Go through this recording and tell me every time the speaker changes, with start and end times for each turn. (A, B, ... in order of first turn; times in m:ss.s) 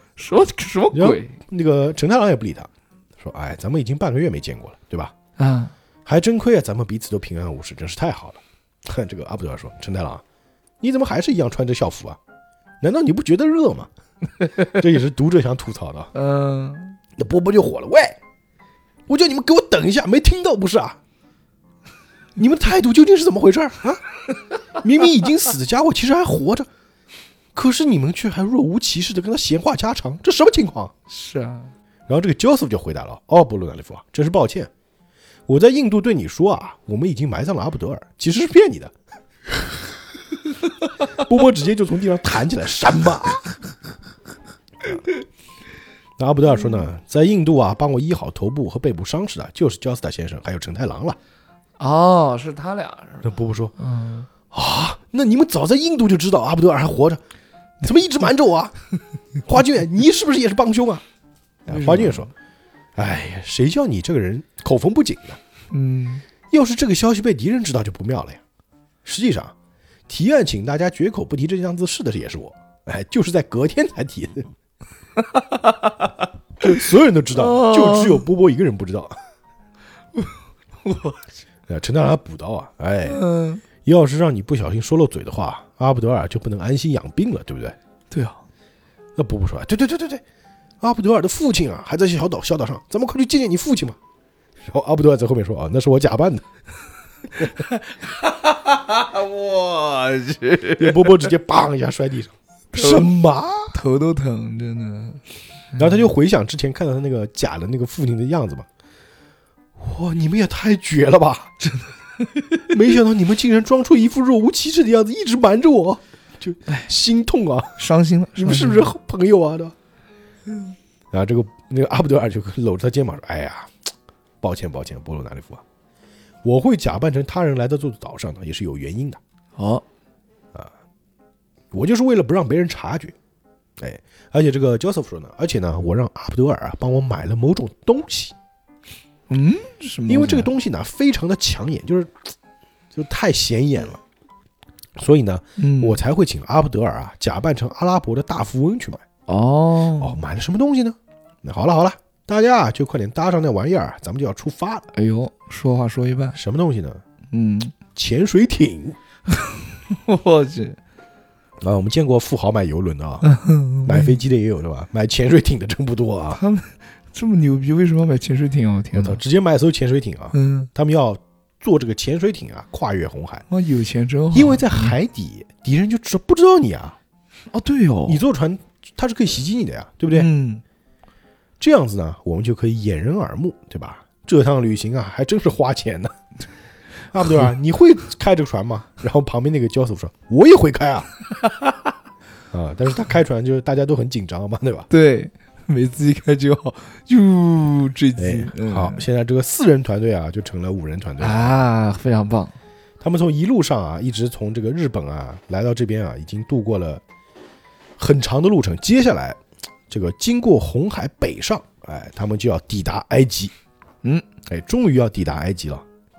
0:00.2-0:01.4 A
0:00.9-0:05.1 B
0:05.4-0:05.7 A
0:06.0-0:10.2 B
0:10.8-0:12.2 B
0:12.8-0:13.9 B
0:14.6-0:16.1 B
0:16.1-0:17.0 A
0:17.2-0:18.2 B
0:19.1-0:21.0 B
0:22.4-0:24.1 B
0:24.8-0:26.7 B
0:27.5-0:30.9 B
0:31.1-0:31.7 A
0:32.1-0:34.7 B
0:35.5-0:38.9 B
0:41.0-0:43.4 B
0:46.2-0:51.2 B
0:51.8-0:54.3 A
0:53.2-0:53.7 B
0:54.5-0:57.2 B
0:57.8-0:58.7 B
0:59.4-1:01.0 B
1:01.7-1:02.3 B
1:01.7-1:02.3 A
1:03.0-1:05.4 B
1:05.7-1:06.2 A
1:06.5-1:08.4 B
1:09.0-1:09.5 B
1:10.1-1:14.5 B
1:15.2-1:16.1 A
1:16.6-1:19.1 B
1:17.3-1:18.2 A
1:20.1-1:21.2 A
1:21.7-1:23.2 B
1:23.0-1:23.6 A
1:23.8-1:27.8 B
1:28.1-1:28.4 A
1:29.2-1:30.2 B
1:30.8-1:34.0 B
1:34.7-1:36.4 B
1:37.4-1:41.3 A
1:40.8-1:43.8 B
1:42.7-1:43.1 A
1:43.7-1:46.1 A
1:45.8-1:48.7 B
1:49.8-1:51.7 B
1:52.4-1:52.6 A
1:52.6-1:57.8 B
1:57.8-1:58.9 A
1:58.4-1:59.7 B
2:01.1-2:03.7 B
2:04.4-2:05.6 B
2:06.4-2:09.2 B
2:09.6-2:09.8 A
2:11.7-2:13.1 B
2:13.8-2:18.3 B
2:19.3-2:20.5 A
2:20.1-2:22.2 B
2:22.9-2:24.0 B
2:25.0-2:29.0 B
2:25.6-2:26.0 A
2:29.3-2:30.2 A
2:30.0-2:34.9 B
2:34.9-2:36.4 A
2:36.3-2:37.0 B
2:37.3-2:37.8 A
2:37.9-2:39.0 B
2:39.3-2:40.8 A
2:41.6-2:43.3 B
2:43.2-2:44.2 A
2:43.8-2:46.4 B
2:46.4-2:49.2 A
2:48.9-2:53.4 B
2:50.3-2:50.7 A
2:53.5-2:55.0 A
2:54.3-2:57.0 B
2:57.5-2:58.2 A
2:58.0-3:00.3 B
3:00.1-3:00.6 A
3:01.6-3:06.1 B
3:07.1-3:11.1 B
3:12.5-3:14.9 B
3:14.9-3:19.0 A
3:18.2-3:21.5 B
3:21.2-3:22.5 A
3:23.0-3:27.0 B
3:28.0-3:33.5 B
3:34.4-3:35.8 B